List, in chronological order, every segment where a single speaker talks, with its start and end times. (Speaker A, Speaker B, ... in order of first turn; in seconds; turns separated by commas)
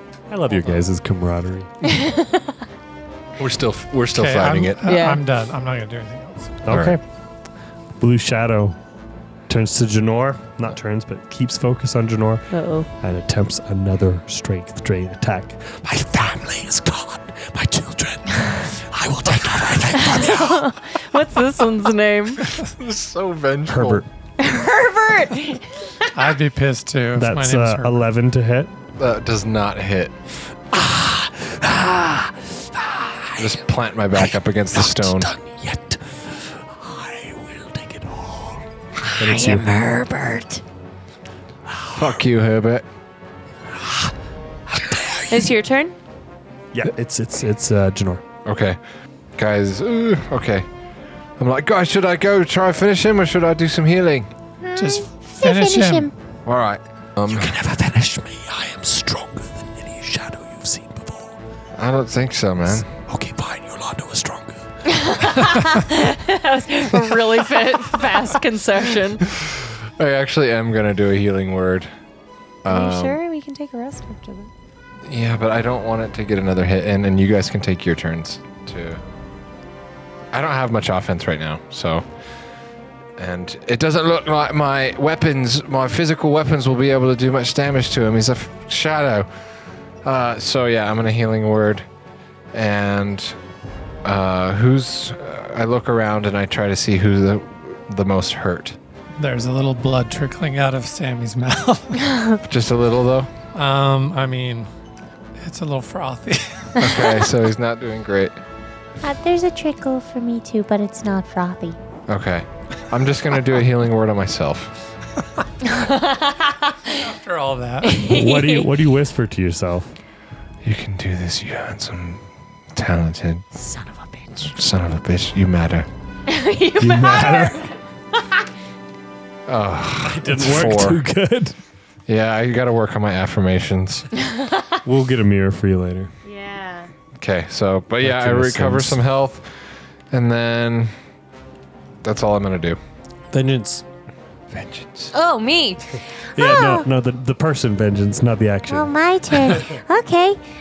Speaker A: 0.3-1.7, Speaker B: 1.8-2.6, Speaker C: 3.4-4.8, Speaker D: 4.1-6.6, Speaker B: 4.8-5.2, Speaker A: 6.7-7.0, Speaker C: 6.7-7.0, Speaker A: 8.0-8.8, Speaker A: 9.5-15.8, Speaker B: 12.5-12.9, Speaker E: 15.8-21.0, Speaker B: 20.0-22.4, Speaker C: 22.6-24.1, Speaker A: 23.7-24.1, Speaker B: 24.4-26.1, Speaker D: 26.1-28.1, Speaker A: 27.1-28.7, Speaker C: 29.0-30.1, Speaker E: 30.7-33.6, Speaker C: 33.4-35.3, Speaker E: 34.2-38.7, Speaker A: 39.2-39.7, Speaker B: 39.2-40.6, Speaker E: 41.7-42.1, Speaker C: 41.9-42.9, Speaker E: 43.7-44.1, Speaker E: 44.7-45.5, Speaker B: 45.3-46.0, Speaker A: 46.7-48.2, Speaker C: 48.5-48.8, Speaker C: 49.4-50.7, Speaker C: 51.4-54.3, Speaker F: 54.6-56.1, Speaker D: 54.8-56.1, Speaker C: 56.5-57.6, Speaker E: 57.3-61.4, Speaker C: 61.8-62.9, Speaker E: 62.9-64.6, Speaker B: 64.9-69.2, Speaker C: 69.2-71.9, Speaker C: 72.6-73.2, Speaker B: 72.7-74.5, Speaker C: 75.0-79.0, Speaker C: 80.3-82.0, Speaker C: 83.2-89.3, Speaker C: 90.0-91.9, Speaker C: 92.5-93.4, Speaker C: 94.0-98.8, Speaker D: 99.2-102.3, Speaker C: 102.4-103.3, Speaker D: 103.5-104.7, Speaker D: 105.4-107.1, Speaker C: 106.8-108.4, Speaker F: 109.0-111.8, Speaker C: 112.1-114.8, Speaker B: 115.6-117.1, Speaker D: 116.9-118.1, Speaker B: 117.8-118.7, Speaker A: 118.0-119.9, Speaker C: 120.6-123.5, Speaker B: 123.6-124.2, Speaker C: 124.3-125.9, Speaker B: 126.3-127.8, Speaker A: 126.8-127.7, Speaker C: 129.5-131.0, Speaker A: 130.1-131.6, Speaker C: 132.1-134.1, Speaker B: 134.2-134.8, Speaker A: 134.8-136.1, Speaker B: 136.2-136.9, Speaker C: 137.2-140.9, Speaker A: 138.0-139.0, Speaker C: 142.0-142.8, Speaker A: 143.3-143.8, Speaker C: 144.5-145.1, Speaker B: 145.1-146.1, Speaker A: 146.3-148.9, Speaker F: 146.4-146.8, Speaker F: 148.7-150.4